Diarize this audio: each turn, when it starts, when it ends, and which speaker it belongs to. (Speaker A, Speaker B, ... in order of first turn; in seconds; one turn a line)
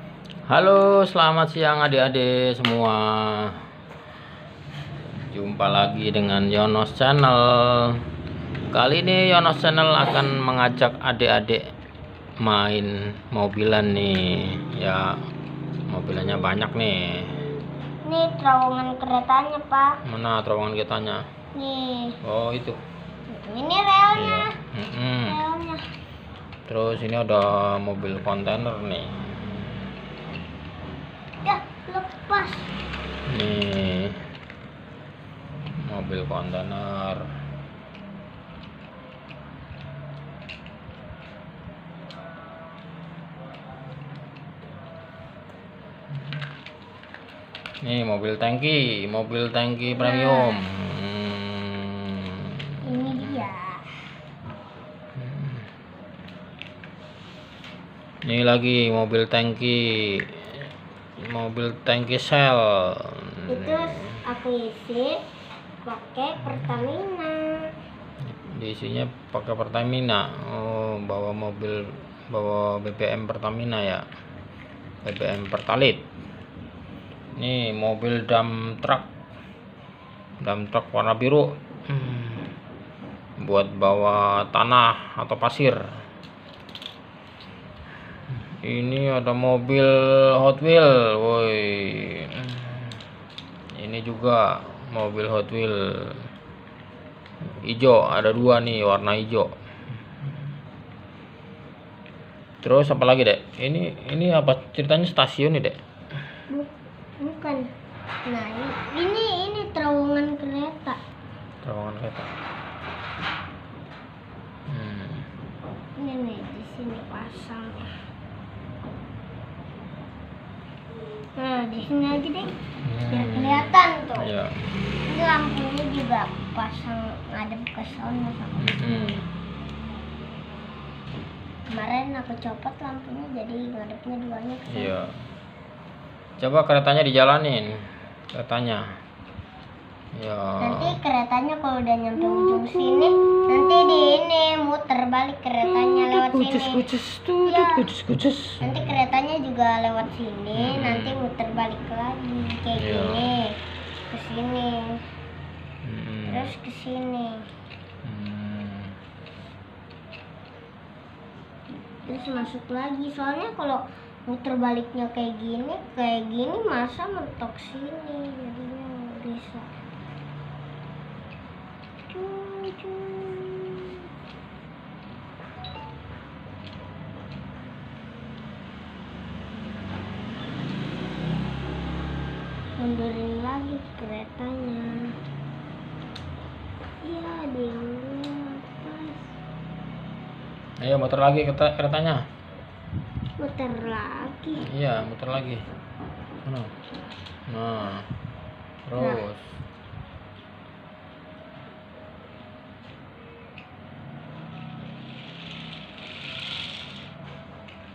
Speaker A: 0.5-3.6
Speaker A: 5.3-8.0
Speaker A: 8.7-11.7
Speaker A: 12.4-15.2
Speaker A: 15.9-17.4
Speaker B: 18.1-19.9
Speaker A: 20.1-21.2
Speaker B: 21.6-22.2
Speaker A: 22.2-22.8
Speaker B: 23.3-24.6
Speaker A: 24.2-25.4
Speaker B: 25.3-25.8
Speaker A: 26.7-29.6
Speaker B: 31.4-32.7
Speaker A: 33.3-34.2
Speaker A: 35.8-37.3
Speaker A: 47.8-53.4
Speaker B: 50.0-50.6
Speaker B: 52.8-53.8
Speaker A: 55.2-55.7
Speaker A: 58.2-64.2
Speaker B: 63.5-65.2
Speaker B: 65.8-67.7
Speaker A: 66.4-67.0
Speaker A: 68.3-74.0
Speaker A: 75.0-76.0
Speaker A: 77.4-79.1
Speaker A: 80.4-82.5
Speaker A: 83.4-85.9
Speaker A: 88.6-93.0
Speaker A: 93.8-96.3
Speaker A: 97.6-99.5
Speaker A: 102.6-105.8
Speaker B: 106.5-107.7
Speaker B: 108.3-111.0
Speaker A: 111.6-112.3
Speaker A: 114.7-115.3
Speaker B: 116.0-117.9
Speaker B: 121.4-122.5
Speaker A: 122.8-124.5
Speaker B: 123.1-124.3
Speaker B: 125.1-129.1
Speaker A: 128.6-129.3
Speaker B: 131.7-134.9
Speaker A: 134.7-135.2
Speaker A: 136.4-138.8
Speaker A: 140.1-141.0
Speaker B: 140.6-146.8
Speaker A: 142.2-144.2
Speaker A: 145.6-149.0
Speaker B: 147.5-147.8
Speaker B: 148.6-153.5
Speaker A: 150.6-151.2
Speaker A: 152.8-153.3
Speaker B: 154.1-155.0
Speaker A: 155.8-156.5
Speaker B: 156.3-157.4
Speaker A: 158.0-159.0
Speaker B: 162.1-169.7
Speaker B: 172.1-174.1
Speaker B: 182.8-185.1
Speaker B: 187.0-189.3
Speaker A: 190.8-192.2
Speaker B: 193.4-194.7
Speaker A: 194.6-195.6
Speaker A: 196.4-196.7
Speaker A: 197.5-198.1
Speaker A: 198.9-199.6
Speaker B: 199.0-199.2